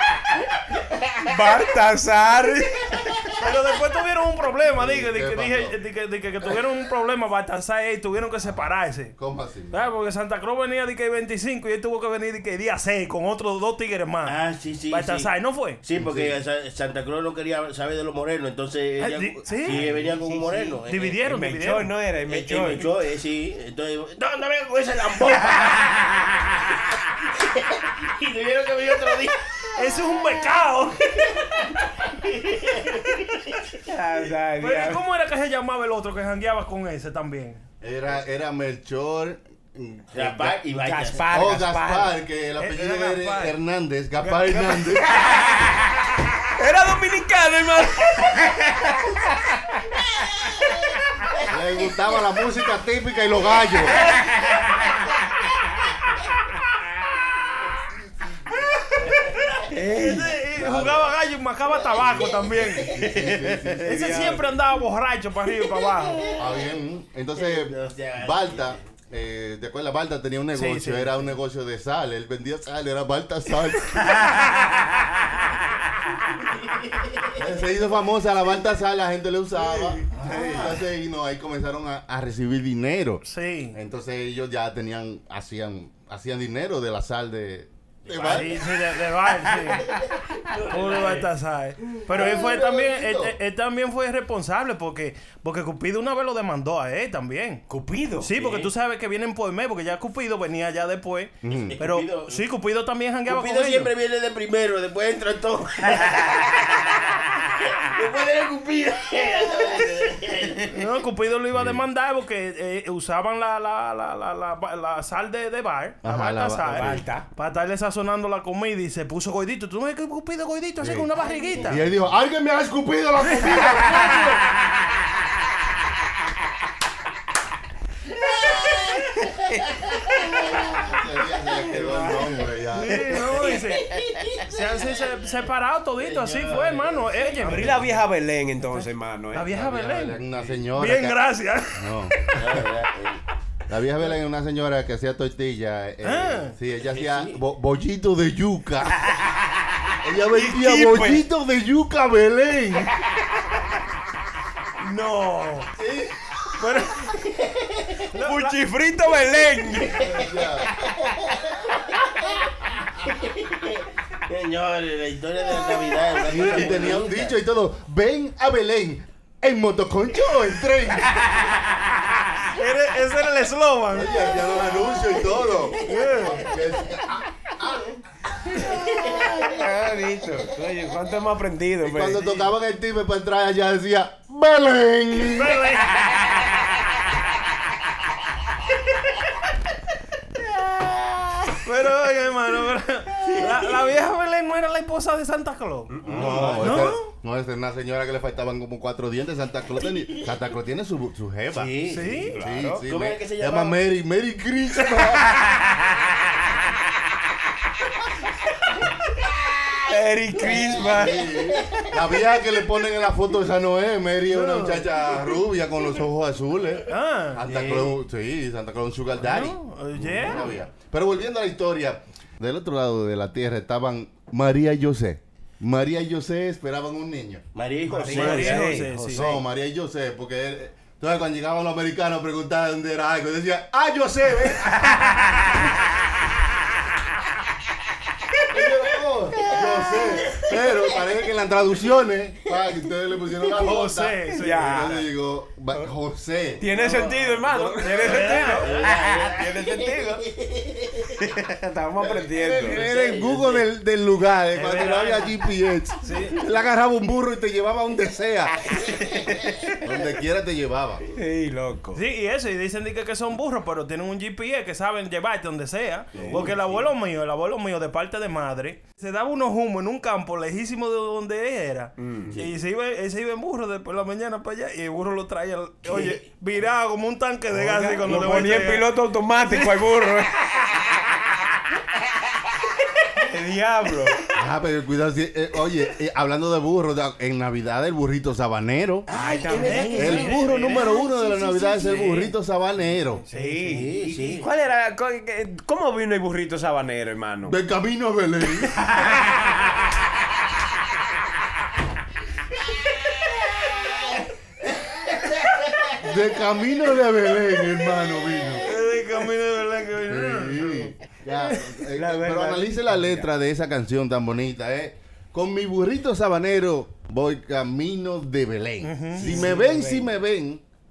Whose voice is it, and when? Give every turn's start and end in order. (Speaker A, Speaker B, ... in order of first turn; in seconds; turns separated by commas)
Speaker A: 1.2-3.2, Speaker B: 3.4-9.1, Speaker C: 4.7-5.7, Speaker C: 9.2-9.8, Speaker B: 9.7-14.4, Speaker D: 14.2-15.3, Speaker B: 14.9-15.8, Speaker D: 15.8-21.2, Speaker C: 16.0-16.3, Speaker B: 19.0-19.8, Speaker A: 19.6-22.9, Speaker B: 20.9-21.9, Speaker D: 22.3-25.9, Speaker D: 27.3-29.4, Speaker B: 29.8-31.3, Speaker D: 32.0-33.4, Speaker A: 33.9-35.0, Speaker B: 34.6-37.6, Speaker C: 37.8-40.6, Speaker D: 40.1-41.3, Speaker A: 40.7-42.1, Speaker C: 41.3-45.2, Speaker B: 42.6-43.5, Speaker A: 44.2-50.0, Speaker C: 51.5-54.1, Speaker A: 54.0-54.9, Speaker B: 59.2-62.9, Speaker A: 59.7-60.3, Speaker C: 60.5-61.1, Speaker D: 61.9-63.0, Speaker C: 62.5-64.4, Speaker A: 63.1-64.5, Speaker B: 63.8-66.3, Speaker D: 66.1-66.5, Speaker C: 66.3-74.2, Speaker D: 67.3-68.8, Speaker B: 70.5-71.3, Speaker D: 76.7-77.3, Speaker C: 77.3-88.6, Speaker A: 79.9-80.6, Speaker B: 83.2-83.8, Speaker D: 88.1-88.5, Speaker B: 88.2-89.9, Speaker D: 90.4-91.3, Speaker B: 90.7-97.6, Speaker C: 92.1-93.3, Speaker A: 97.7-98.7, Speaker B: 98.2-103.9, Speaker C: 101.4-101.8, Speaker D: 101.5-102.4, Speaker D: 103.2-110.8, Speaker B: 110.7-121.8, Speaker C: 111.5-111.8, Speaker C: 116.0-117.0, Speaker A: 116.6-117.3, Speaker C: 120.8-124.5, Speaker D: 121.2-121.8, Speaker B: 123.9-124.2, Speaker C: 130.5-133.4, Speaker A: 131.7-132.3, Speaker B: 132.7-137.9, Speaker D: 134.0-135.1, Speaker D: 136.0-137.7, Speaker A: 137.4-139.5, Speaker B: 139.3-140.2, Speaker C: 139.4-141.2, Speaker B: 140.7-142.3, Speaker C: 141.7-142.7, Speaker D: 142.3-143.2, Speaker C: 143.7-149.1, Speaker B: 146.0-146.5, Speaker D: 146.8-147.4, Speaker C: 150.0-153.0, Speaker A: 150.3-151.2, Speaker B: 154.8-155.7, Speaker D: 155.8-156.1, Speaker B: 156.6-157.1, Speaker D: 157.2-157.9, Speaker B: 158.1-158.6, Speaker A: 158.1-160.0, Speaker D: 160.0-160.3, Speaker C: 160.0-160.7, Speaker D: 160.8-161.6, Speaker D: 163.0-167.3, Speaker C: 166.2-171.2, Speaker B: 172.5-174.2, Speaker C: 173.9-177.9, Speaker B: 175.8-176.5, Speaker A: 178.9-182.3, Speaker C: 181.8-185.6, Speaker B: 185.2-185.9, Speaker B: 191.6-195.9, Speaker A: 196.0-196.6, Speaker D: 196.0-196.7, Speaker C: 196.0-201.7, Speaker B: 196.6-197.1, Speaker D: 201.5-202.3, Speaker B: 201.9-202.3, Speaker A: 202.2-202.9, Speaker C: 202.4-205.4, Speaker D: 202.8-203.8, Speaker A: 205.1-205.8, Speaker A: 209.8-211.4, Speaker D: 210.4-211.7, Speaker C: 210.8-227.4, Speaker B: 214.3-214.9, Speaker B: 216.9-217.4, Speaker D: 217.4-217.9, Speaker B: 219.2-220.5, Speaker D: 227.5-228.8, Speaker B: 227.9-229.4, Speaker A: 228.0-228.9, Speaker C: 228.9-235.1, Speaker C: 238.5-246.7, Speaker B: 243.5-245.1, Speaker A: 244.3-245.0, Speaker A: 246.6-250.2, Speaker D: 246.6-247.4, Speaker C: 247.4-248.5, Speaker B: 247.8-248.7, Speaker D: 248.1-251.2, Speaker A: 251.1-252.8, Speaker D: 252.2-253.7, Speaker C: 252.4-258.8, Speaker B: 254.5-255.4, Speaker B: 256.0-256.4, Speaker C: 259.8-261.0, Speaker A: 261.1-262.0, Speaker B: 261.9-278.9, Speaker D: 266.1-266.5, Speaker A: 266.2-266.8, Speaker A: 272.0-272.4, Speaker D: 275.8-276.2, Speaker A: 277.5-280.8, Speaker A: 283.2-284.2, Speaker C: 284.3-289.1, Speaker D: 289.1-292.2, Speaker A: 289.1-290.9, Speaker B: 289.6-290.8, Speaker C: 289.9-293.2, Speaker B: 293.2-293.9, Speaker A: 293.3-297.6, Speaker D: 293.7-294.4, Speaker C: 297.4-298.9, Speaker C: 306.0-308.6, Speaker B: 308.6-310.9, Speaker C: 310.1-320.6, Speaker A: 311.9-313.2, Speaker B: 318.8-319.4, Speaker A: 319.2-320.1